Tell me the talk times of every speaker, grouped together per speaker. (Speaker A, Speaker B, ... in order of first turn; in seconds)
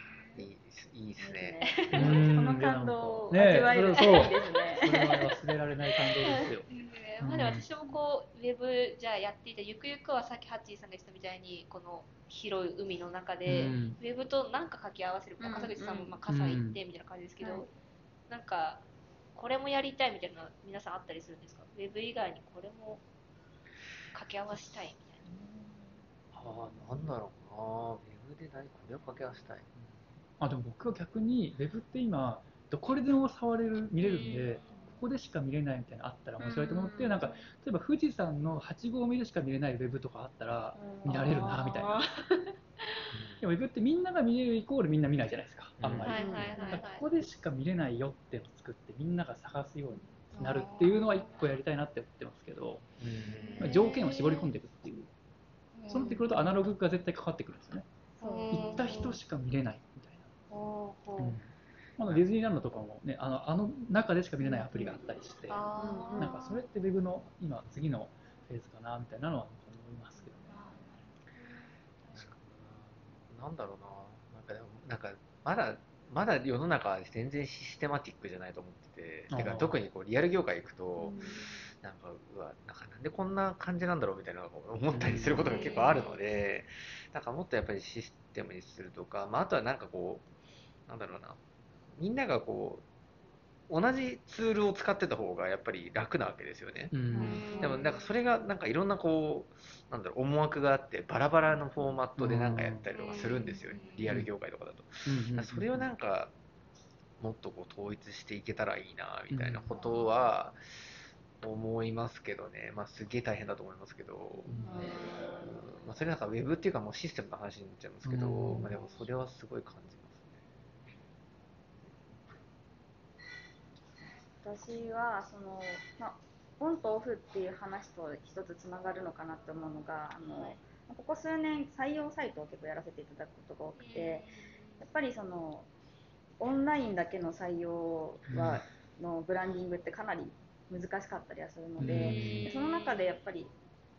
Speaker A: 0.3-1.8, 26.3-29.7, 43.1-43.4, 45.8-46.4, 53.0-53.7, 72.2-90.2, 90.9-91.4, 92.0-92.8, 93.7-96.9, 97.5-106.3, 107.2-120.4, 141.9-142.5
Speaker B: 1.2-5.3, 15.4-16.2, 17.4-17.7, 25.4-25.7, 36.8-37.4, 40.8-42.0, 46.1-46.9, 53.3-53.8, 56.0-56.2, 58.2-59.1, 64.4-65.0, 65.8-66.5, 81.0-81.5, 97.1-97.8, 114.4-114.9, 124.4-134.3, 134.8-135.7, 136.4-143.5
Speaker C: 1.6-2.3, 4.0-4.7, 6.2-17.7, 18.3-23.0, 24.1-25.3, 34.0-34.5, 36.4-37.3, 41.1-43.1, 46.0-47.1, 50.3-51.4, 53.3-54.5, 55.8-56.2, 58.2-59.2, 60.5-61.4, 65.5-66.6, 70.5-71.0, 72.0-72.4, 85.4-86.2, 97.2-98.1, 102.9-104.2, 109.8-110.1, 114.7-115.5, 118.7-119.0, 133.8-134.8, 141.9-143.1
Speaker D: 1.9-6.7, 7.2-7.7, 13.4-14.0, 16.3-16.8, 30.4-42.0, 43.4-52.8, 53.6-55.1, 55.9-57.9, 58.5-60.3, 61.2-70.6, 79.3-79.8, 84.9-85.6, 96.9-97.4, 102.2-102.9, 105.1-105.8, 109.3-109.7, 114.5-114.8, 118.0-118.7, 138.3-138.6, 141.8-142.3